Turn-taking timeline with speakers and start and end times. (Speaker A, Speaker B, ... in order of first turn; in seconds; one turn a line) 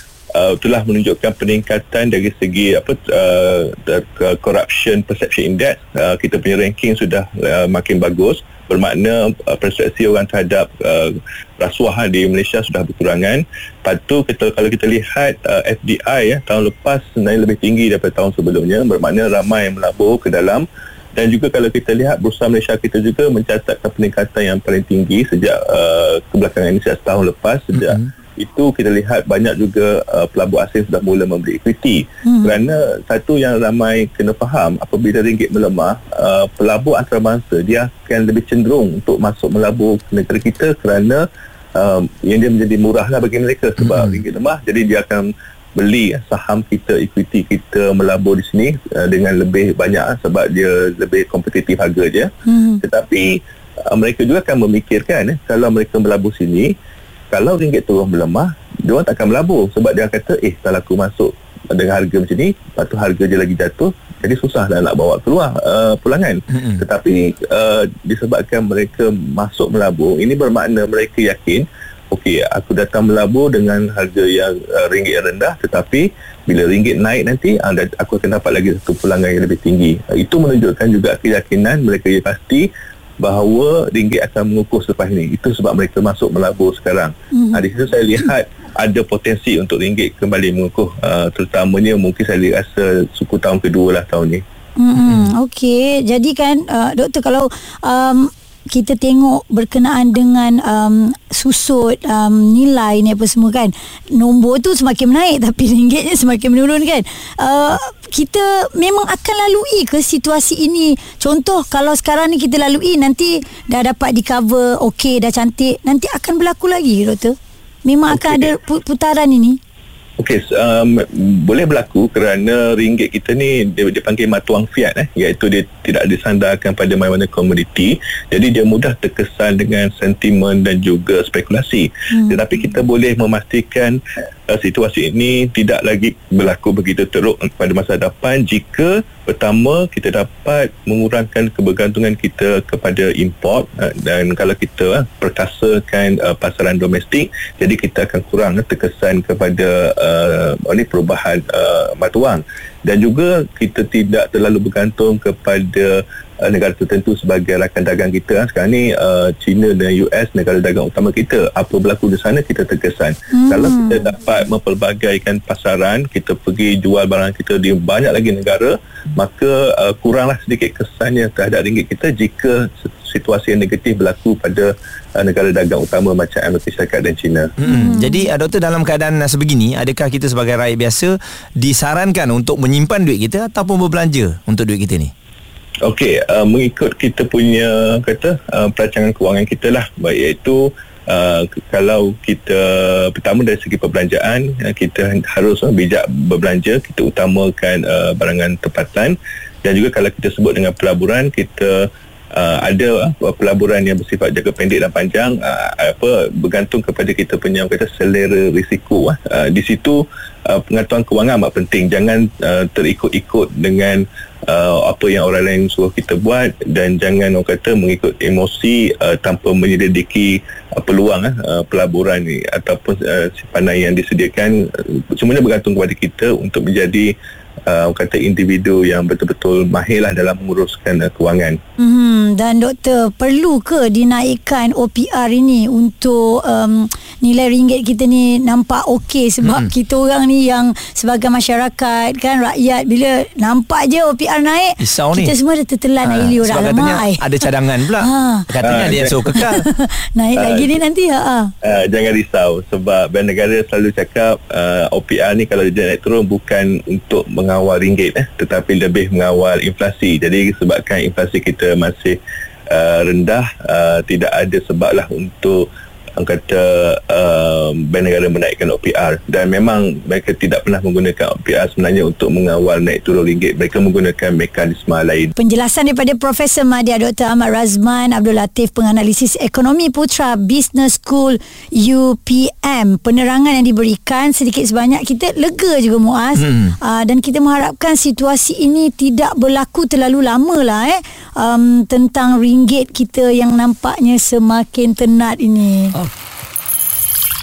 Speaker A: 0.4-41.2
Speaker B: 32.2-32.6
Speaker A: 41.8-52.3
Speaker C: 43.8-44.1
Speaker B: 52.5-52.8
Speaker A: 52.8-56.7
Speaker A: 57.3-82.7
Speaker A: 83.2-94.4
Speaker B: 87.3-87.6
Speaker B: 94.8-119.6
Speaker A: 118.1-118.5
Speaker A: 120.2-177.5
Speaker B: 163.3-164.0
Speaker C: 177.6-185.1
Speaker B: 177.7-178.2
Speaker A: 185.8-224.6
Speaker A: 225.2-227.1
Speaker A: 227.7-231.6
Speaker B: 231.8-247.3
Speaker C: 239.4-239.7
Speaker C: 244.8-245.3
Speaker C: 246.0-249.6
Speaker B: 248.0-248.5
Speaker A: 248.6-249.4
Speaker B: 249.3-251.5
Speaker A: 250.4-250.8
Speaker A: 251.6-262.2
Speaker A: 262.7-265.6
Speaker A: 266.2-275.3
Speaker B: 275.4-295.9